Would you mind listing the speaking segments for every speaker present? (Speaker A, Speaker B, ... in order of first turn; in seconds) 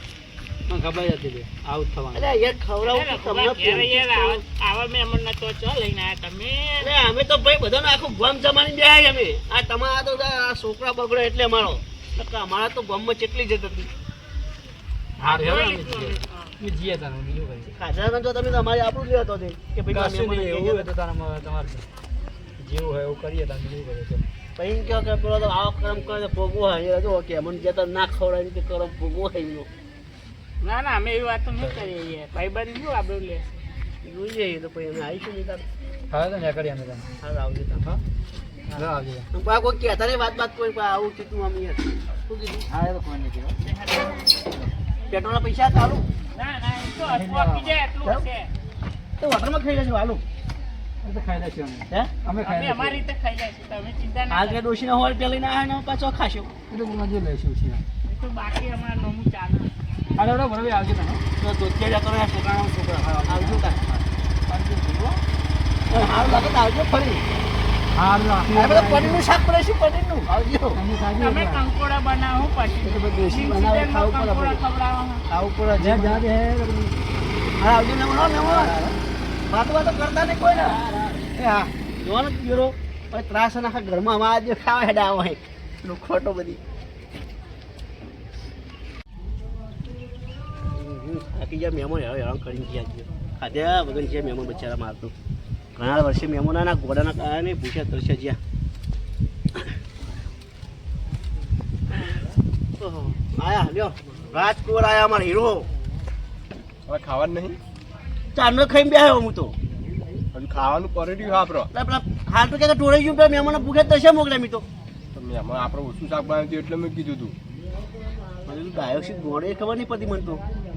Speaker A: 0.7-2.3, 15.2-17.7, 19.9-21.9, 22.6-24.2, 36.1-37.1, 38.7-39.3, 42.7-43.6, 47.0-47.8, 51.0-53.0, 56.7-57.8, 60.2-61.2, 63.0-65.2, 67.9-69.2, 70.7-71.6, 75.8-76.9, 78.4-79.0
Speaker B: 2.1-4.4, 6.8-13.9, 17.7-20.9, 24.6-29.7, 34.0-35.6, 37.2-37.8, 39.3-42.6, 45.1-46.1, 49.2-50.2, 54.3-56.5, 61.4-63.8, 65.9-67.2, 68.5-70.8, 72.8-74.6, 75.3-76.3, 77.6-78.8, 79.5-86.6, 90.8-95.1, 95.8-98.4, 102.8-105.7, 108.3-109.6, 111.7-114.7, 118.5-120.4
Speaker C: 2.8-6.9, 15.2-16.6, 30.6-33.5, 43.6-44.3, 46.4-48.5, 52.4-54.6, 58.1-59.7, 71.2-75.2
Speaker D: 106.9-107.6, 110.3-111.7, 115.1-117.4